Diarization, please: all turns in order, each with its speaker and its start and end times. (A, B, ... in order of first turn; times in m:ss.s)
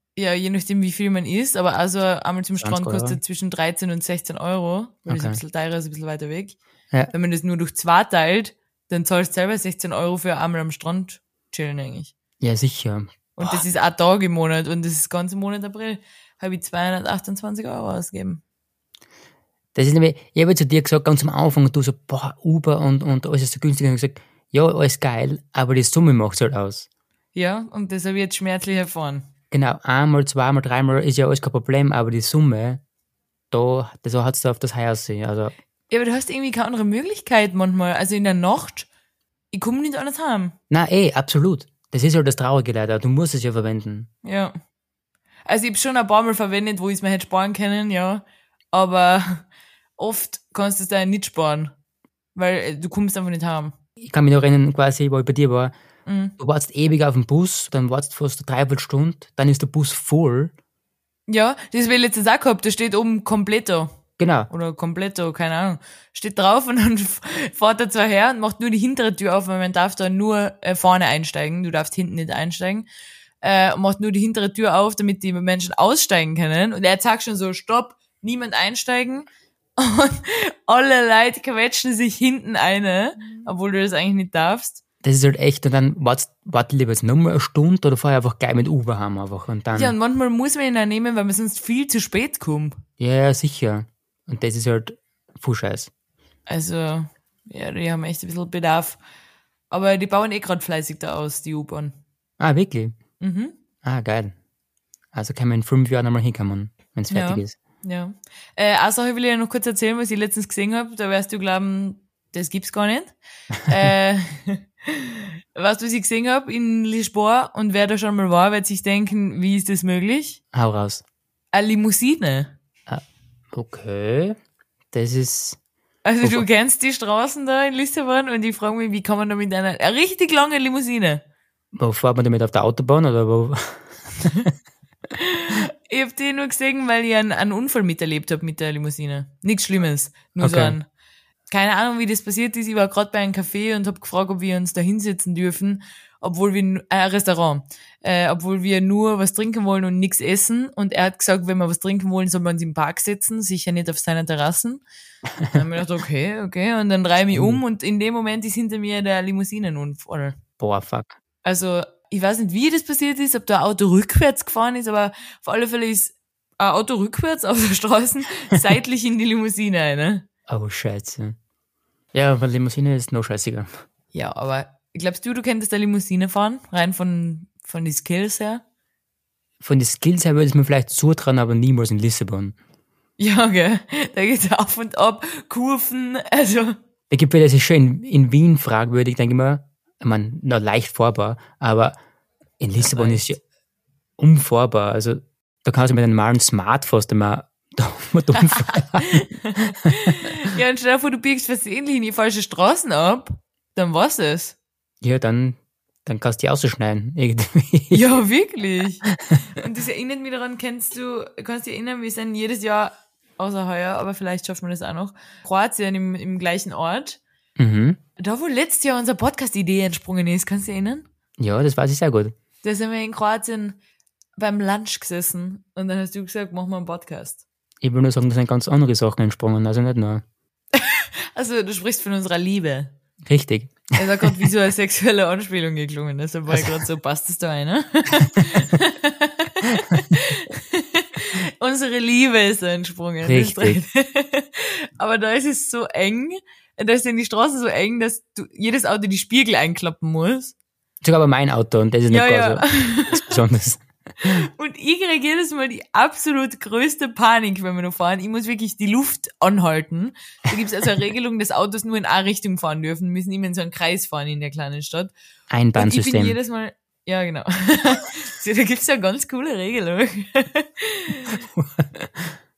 0:00.2-0:06.6 A
0:02.6-0:03.2 B
0:05.1-0:05.4 B
0:07.1-0:12.1 A
0:12.4-0:13.6 B
0:13.4-0:18.4 A
0:19.8-0:26.9 B
0:27.4-0:29.3 A
0:29.5-0:32.8 B
0:33.5-0:35.5 B
0:35.9-0:38.9 A
0:39.5-0:40.6 A
0:40.7-0:44.1 B
0:44.2-0:44.5 A
0:45.5-0:49.4 A
0:50.0-0:51.7 A
0:52.4-0:53.7 A
0:54.0-0:55.7 B
0:56.1-0:56.4 A
0:56.4-1:00.5 B
1:01.3-1:03.9 A
1:04.2-1:04.5 B
1:04.5-1:12.9 A
1:13.4-1:19.3 A
1:19.8-1:24.8 A
1:25.0-1:30.0 B
1:29.7-1:32.8 A
1:33.0-1:35.9 B
1:36.5-1:39.0 A
1:39.7-1:42.0 A
1:42.4-1:43.0 B
1:43.2-1:43.5 A
1:43.8-1:44.3 B
1:45.1-1:47.6 B
1:47.1-1:53.1 A
1:53.7-2:00.4 A
2:00.5-2:01.0 B
2:01.5-2:02.5 A
2:02.9-2:04.4 B
2:04.9-2:05.6 B
2:06.0-2:11.2 A
2:11.7-2:14.5 B
2:15.2-2:20.9 A
2:20.4-2:20.8 B
2:21.5-2:34.8 A
2:35.5-2:40.4 A
2:37.3-2:37.6 B
2:40.6-2:41.1 B
2:41.4-2:50.2 A
2:50.5-2:51.4 B
2:52.1-2:53.7 B
2:54.1-2:58.6 A
2:59.6-3:02.6 B
3:03.2-3:06.8 A
3:07.1-3:12.0 B
3:12.6-3:13.4 B
3:12.8-3:13.3 A
3:14.2-3:19.2 B
3:18.6-3:24.6 A
3:25.0-3:28.0 B
3:27.9-3:37.2 A
3:37.6-3:38.0 B
3:38.2-3:41.0 A
3:41.4-3:42.3 B
3:42.6-3:43.8 A
3:44.4-3:47.4 A
3:47.8-3:50.2 B
3:50.7-3:52.9 A
3:53.2-3:54.4 B
3:54.0-4:10.5 A
3:56.5-3:56.8 B
4:03.2-4:03.8 B
4:11.0-4:14.4 B
4:12.1-4:13.4 A
4:14.2-4:25.1 A
4:25.5-4:26.4 B
4:25.8-4:31.4 A
4:31.5-4:32.4 B